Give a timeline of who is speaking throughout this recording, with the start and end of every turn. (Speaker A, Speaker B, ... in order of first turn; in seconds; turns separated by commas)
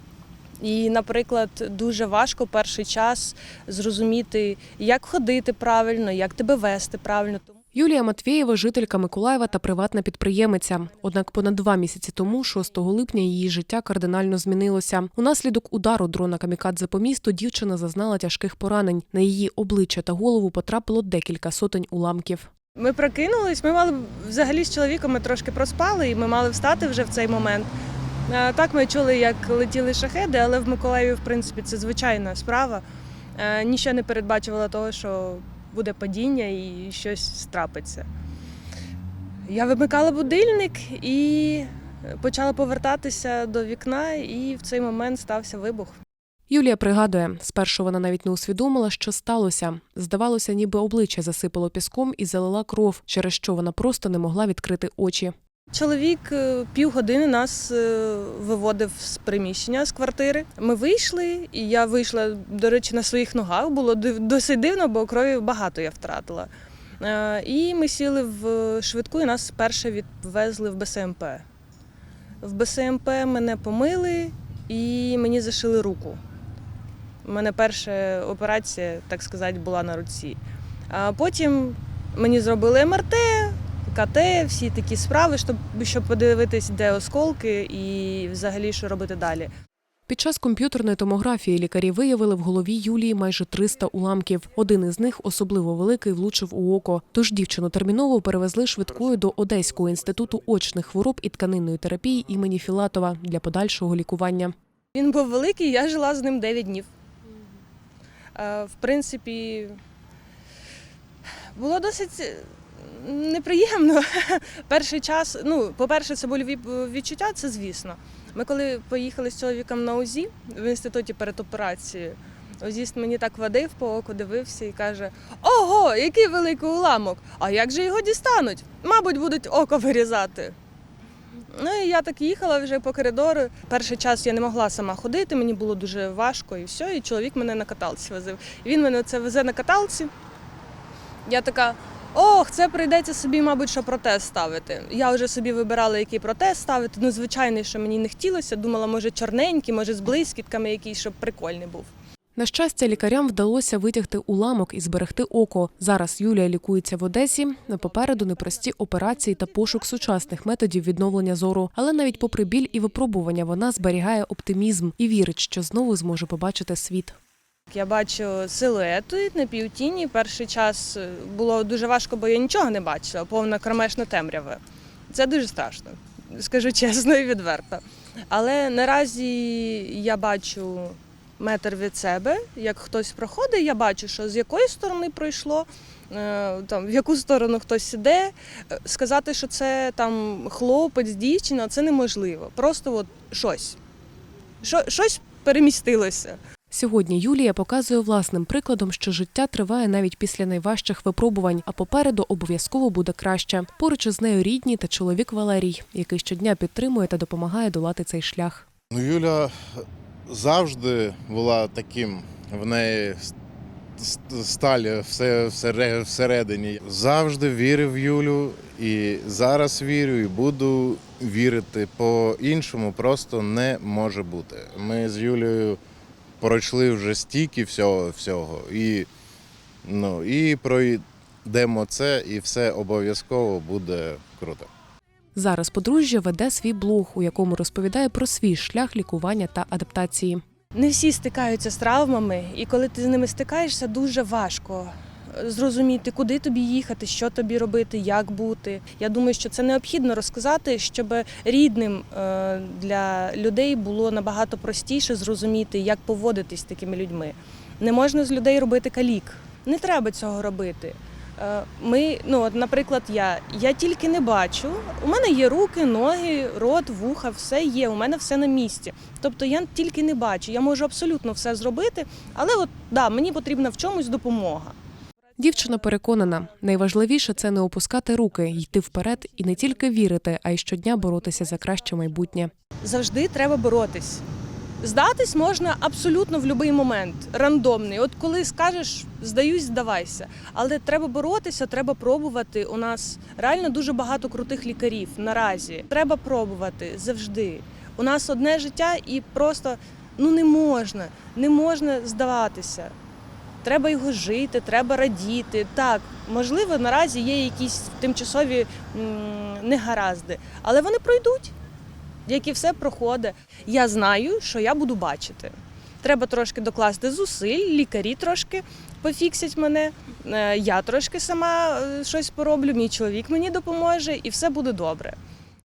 Speaker A: 0.6-7.5, Speaker B: 7.7-22.5, Speaker A: 22.8-27.7, Speaker A: 28.3-32.8, Speaker A: 33.4-38.1, Speaker A: 39.5-46.0, Speaker B: 46.5-55.3, Speaker A: 55.7-66.5, Speaker A: 67.0-71.4, Speaker A: 72.4-76.2, Speaker A: 77.2-80.4, Speaker A: 80.9-89.5, Speaker B: 90.1-104.5, Speaker A: 104.9-106.9, Speaker A: 108.3-109.8, Speaker A: 111.5-130.6, Speaker A: 131.5-140.1, Speaker A: 141.2-151.9, Speaker B: 152.3-167.2, Speaker A: 167.7-193.8, Speaker A: 194.6-196.4, Speaker B: 196.7-208.7, Speaker C: 208.9-209.5, Speaker C: 210.3-213.3, Speaker C: 214.0-225.8, Speaker C: 226.4-229.1, Speaker C: 229.8-234.7, Speaker B: 235.3-240.4, Speaker A: 240.7-274.7, Speaker B: 275.4-282.5, Speaker A: 282.8-284.2, Speaker A: 284.8-302.9, Speaker A: 303.6-311.5, Speaker A: 312.2-325.1